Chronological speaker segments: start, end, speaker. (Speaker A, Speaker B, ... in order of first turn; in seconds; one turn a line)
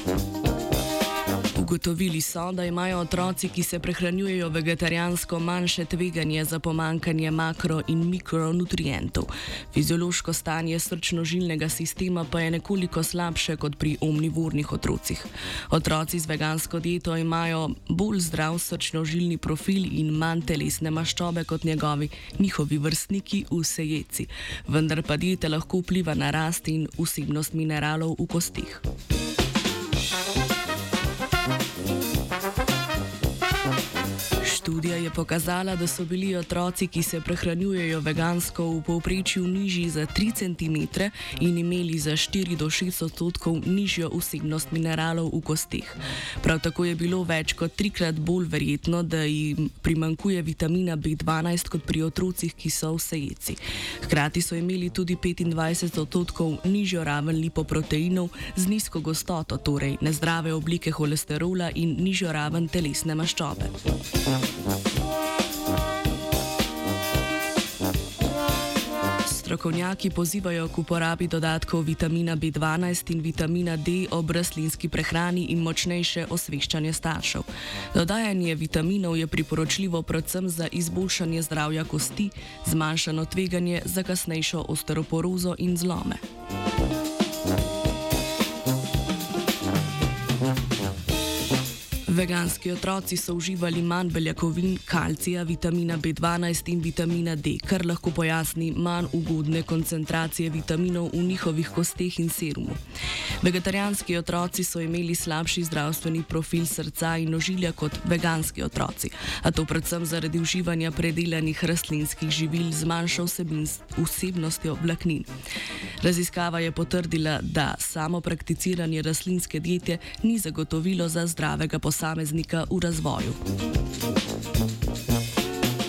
Speaker A: 1.6-28.8
Speaker A: 34.4-63.8
Speaker A: 69.2-86.2
Speaker A: 92.1-102.8
Speaker A: 103.4-115.3
Speaker A: 116.0-123.4